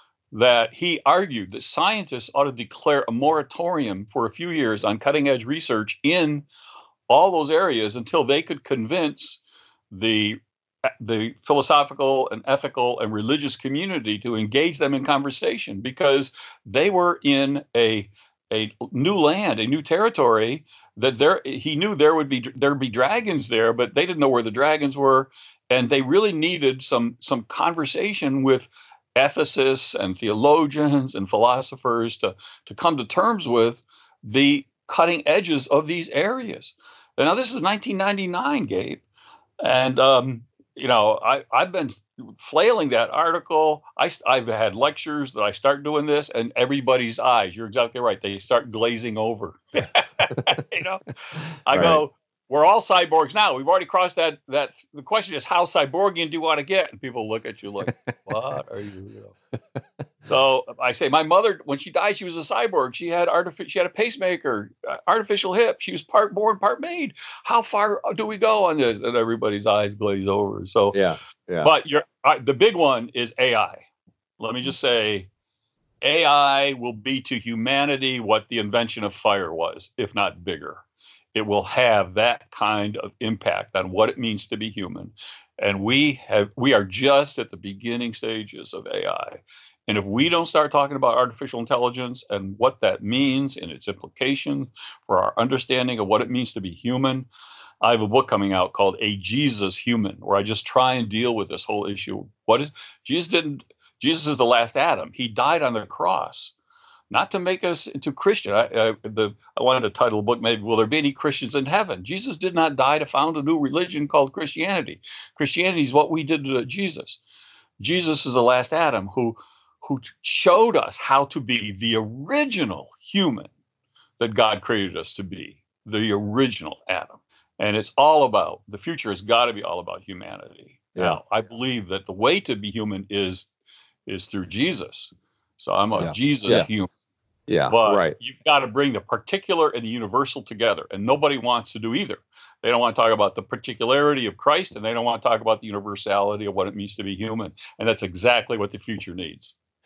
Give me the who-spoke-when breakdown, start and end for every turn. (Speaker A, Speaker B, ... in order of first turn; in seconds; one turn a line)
Speaker A: 0.3-6.5
Speaker A: 7.1-39.0
Speaker A: 39.6-51.0
Speaker A: 51.6-59.3
Speaker B: 51.7-52.0
Speaker B: 57.9-58.1
Speaker A: 60.3-71.0
Speaker B: 70.9-71.7
Speaker A: 71.6-73.8
Speaker A: 74.4-75.3
Speaker A: 76.0-80.8
Speaker A: 81.3-97.3
Speaker A: 97.8-106.5
Speaker A: 107.1-117.2
Speaker A: 117.8-123.5
Speaker A: 124.2-133.5
Speaker A: 134.1-136.9
Speaker B: 136.0-136.7
Speaker B: 137.5-138.2
Speaker A: 137.7-149.5